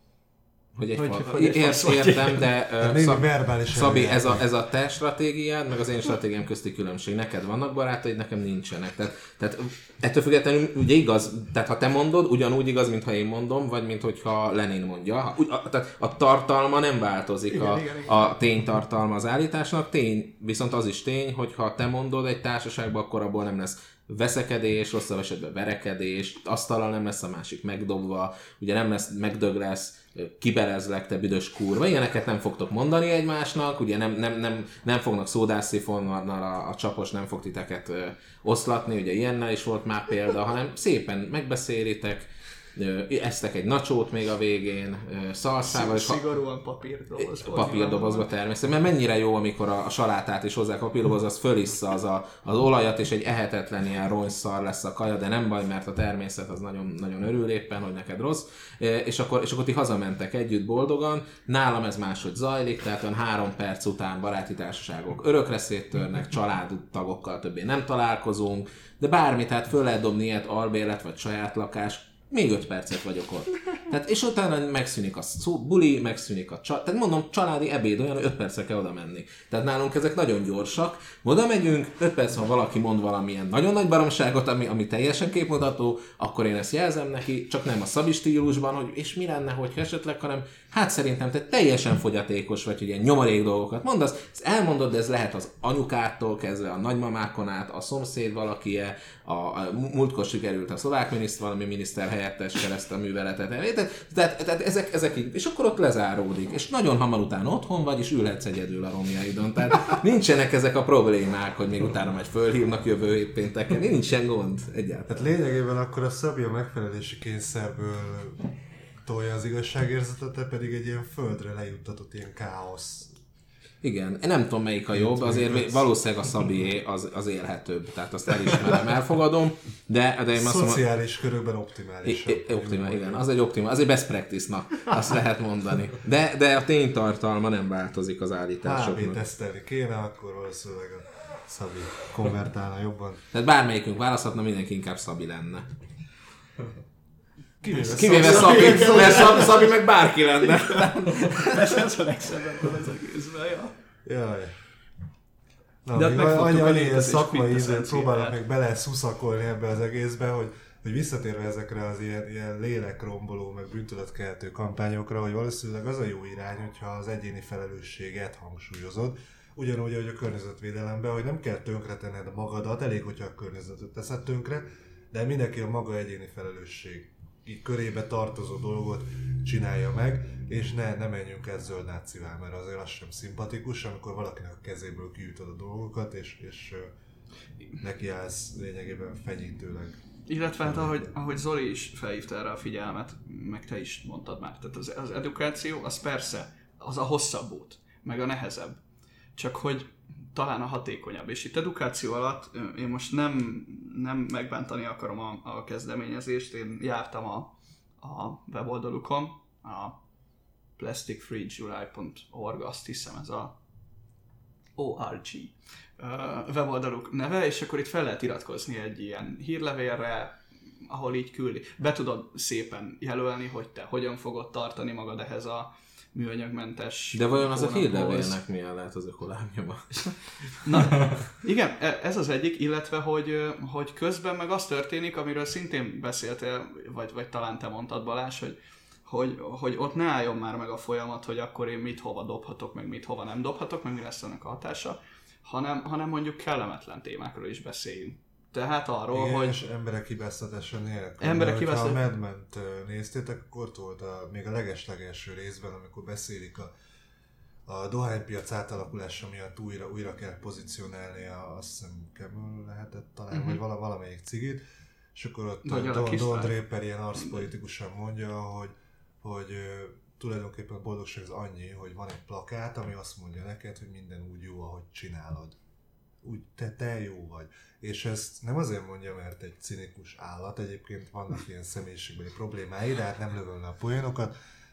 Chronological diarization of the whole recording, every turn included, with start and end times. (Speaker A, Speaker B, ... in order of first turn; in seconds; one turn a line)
Speaker A: 0.8-46.2
Speaker B: 1.0-2.5
Speaker C: 2.8-4.5
Speaker B: 17.5-18.2
Speaker B: 45.6-48.3
Speaker A: 47.2-115.3
Speaker C: 115.1-123.2
Speaker A: 123.8-130.8
Speaker C: 124.9-125.9
Speaker C: 130.3-133.3
Speaker A: 132.1-139.2
Speaker C: 138.6-143.2
Speaker A: 143.3-145.7
Speaker C: 147.6-149.6
Speaker A: 147.7-151.6
Speaker B: 148.1-149.7
Speaker B: 150.4-153.7
Speaker C: 154.1-154.6
Speaker C: 155.8-186.9
Speaker B: 155.9-158.3
Speaker C: 187.8-190.0
Speaker B: 190.3-198.8
Speaker C: 190.6-191.1
Speaker B: 199.4-210.0
Speaker B: 210.8-213.6
Speaker B: 214.8-228.4
Speaker A: 227.1-230.5
Speaker B: 230.6-249.6
Speaker C: 249.1-256.7
Speaker B: 251.2-252.0
Speaker C: 257.7-264.6
Speaker B: 263.3-263.6
Speaker C: 265.1-275.6
Speaker B: 265.6-266.6
Speaker C: 276.2-284.3